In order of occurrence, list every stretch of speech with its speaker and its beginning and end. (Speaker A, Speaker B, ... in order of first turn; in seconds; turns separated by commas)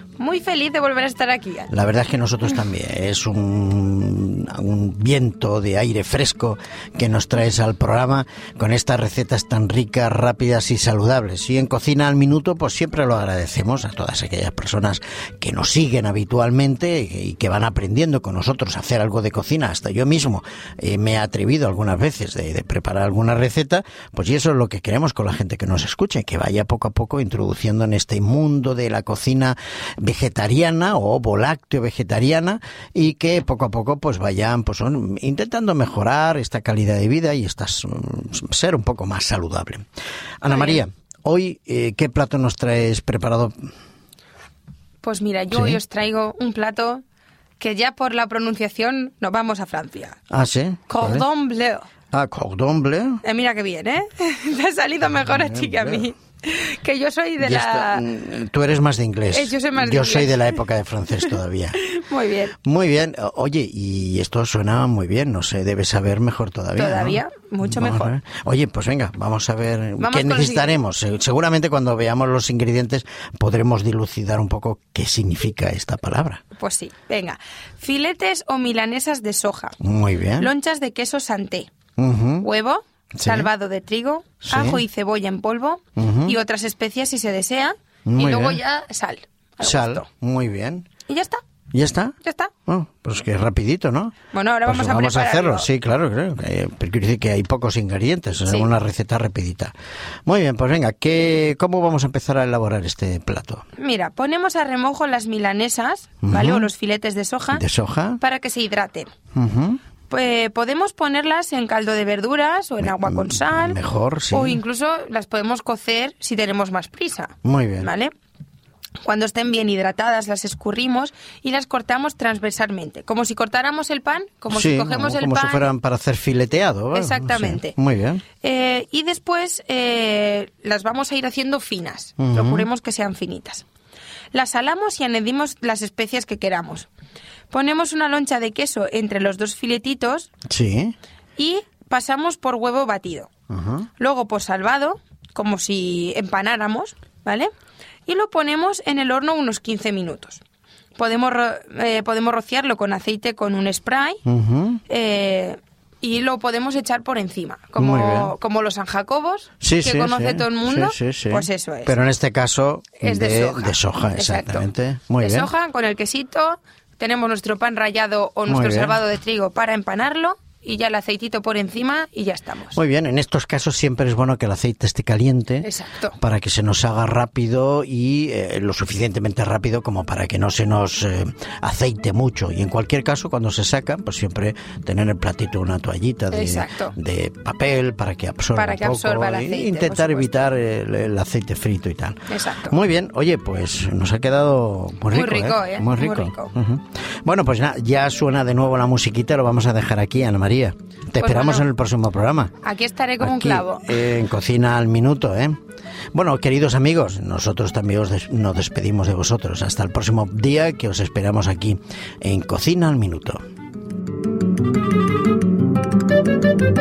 Speaker A: 0.2-1.7, Speaker B: 1.7-39.8, Speaker B: 40.4-43.5, Speaker A: 40.5-40.8, Speaker A: 45.0-47.0, Speaker B: 45.5-45.8, Speaker A: 47.6-50.1, Speaker B: 50.3-51.2, Speaker A: 50.9-51.9, Speaker B: 52.1-53.2, Speaker A: 53.2-58.0, Speaker B: 55.2-56.1, Speaker B: 57.4-61.8, Speaker A: 59.3-60.6, Speaker A: 61.8-62.5, Speaker B: 62.6-76.4, Speaker A: 66.8-68.1, Speaker A: 70.0-70.8, Speaker A: 76.5-79.8, Speaker B: 79.8-80.5, Speaker A: 80.4-81.7, Speaker B: 82.0-82.5, Speaker A: 82.4-90.0, Speaker B: 83.2-83.5, Speaker B: 84.4-84.8, Speaker B: 86.0-86.3, Speaker B: 88.0-88.6, Speaker B: 89.6-90.9, Speaker A: 91.1-91.4, Speaker B: 91.7-92.1, Speaker A: 92.2-92.5, Speaker B: 92.7-94.1, Speaker A: 94.3-95.7, Speaker B: 94.7-99.7, Speaker A: 98.4-98.7, Speaker B: 100.2-103.6, Speaker A: 103.8-107.6, Speaker B: 106.2-106.7, Speaker B: 107.5-108.2, Speaker A: 108.2-109.1, Speaker B: 109.3-109.8, Speaker A: 110.1-113.8, Speaker B: 112.8-114.6, Speaker A: 114.3-118.1, Speaker B: 117.4-117.9, Speaker A: 119.0-125.7, Speaker B: 124.5-128.2, Speaker A: 126.9-127.7, Speaker A: 128.4-133.7, Speaker B: 132.2-132.7, Speaker A: 134.3-136.9, Speaker A: 137.5-140.3, Speaker B: 140.5-140.9, Speaker A: 141.4-143.3, Speaker B: 143.5-143.9, Speaker A: 144.0-147.5, Speaker A: 148.1-150.4, Speaker A: 151.0-154.2, Speaker B: 154.2-154.8, Speaker A: 154.9-161.9, Speaker B: 157.8-158.3, Speaker B: 159.6-165.5, Speaker A: 163.0-164.7, Speaker A: 165.2-172.8, Speaker B: 168.5-169.0, Speaker B: 172.7-202.5, Speaker A: 175.6-176.2, Speaker A: 186.3-186.9, Speaker A: 188.5-190.5, Speaker A: 192.3-192.7, Speaker A: 195.1-196.5, Speaker A: 201.2-201.7, Speaker A: 202.6-204.0, Speaker B: 203.2-205.6, Speaker B: 206.1-213.4